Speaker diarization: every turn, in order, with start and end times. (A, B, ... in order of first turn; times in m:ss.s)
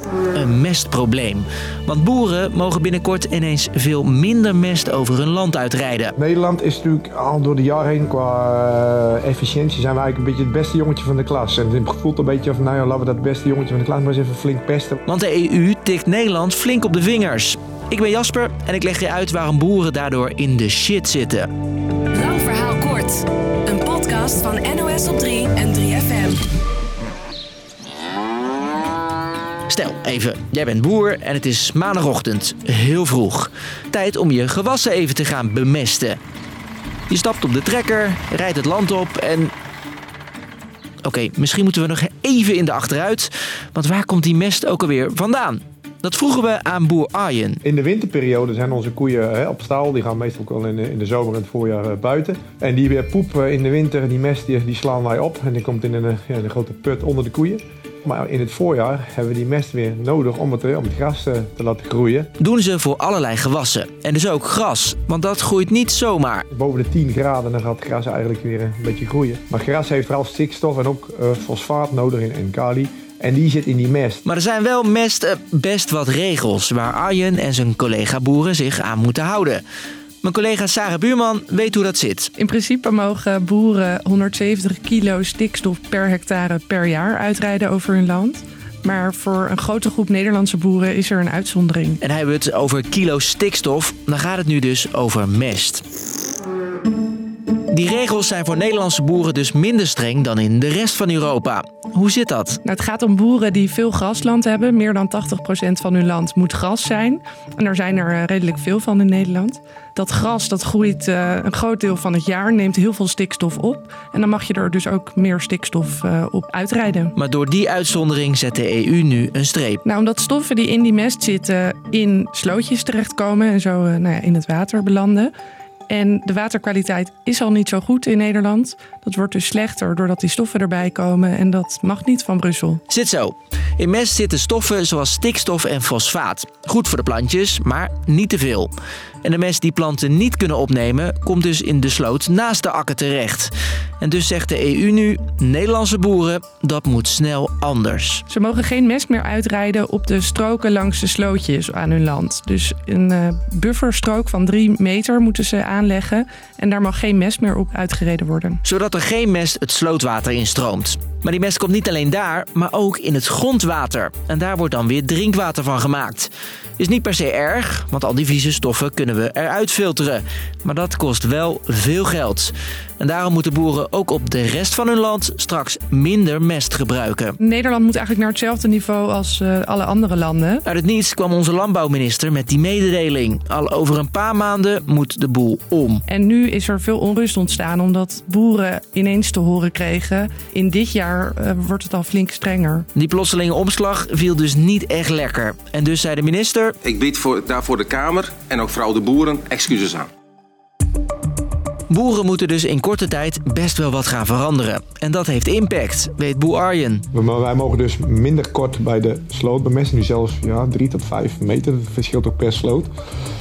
0:00.3-0:06.1 A
0:06.2-0:15.0 B
0:15.0-0:21.5 A
0:22.1-0:26.4 C
0:29.7-0:36.2 A
0:37.1-0:39.5 A
0:41.0-0:47.6 A
0:47.6-1:02.3 B
1:02.4-1:06.4 A
1:06.5-1:14.2 B
1:14.2-1:19.6 A
1:20.2-1:22.3 A
1:22.4-1:32.0 D
1:32.0-1:35.8 A
1:37.7-1:42.6 A
1:42.6-1:57.1 D
1:57.2-1:59.8 A
1:59.8-2:05.3 D
2:05.9-2:12.8 D
2:12.9-2:18.7 A
2:19.2-2:28.2 A
2:28.3-2:38.6 D
2:38.6-2:57.4 A
2:57.4-3:00.6 D
3:00.6-3:06.0 A
3:06.1-3:12.9 D
3:12.9-3:16.7 A
3:16.8-3:20.1 E
3:21.9-3:27.0 A
3:27.1-3:32.9 B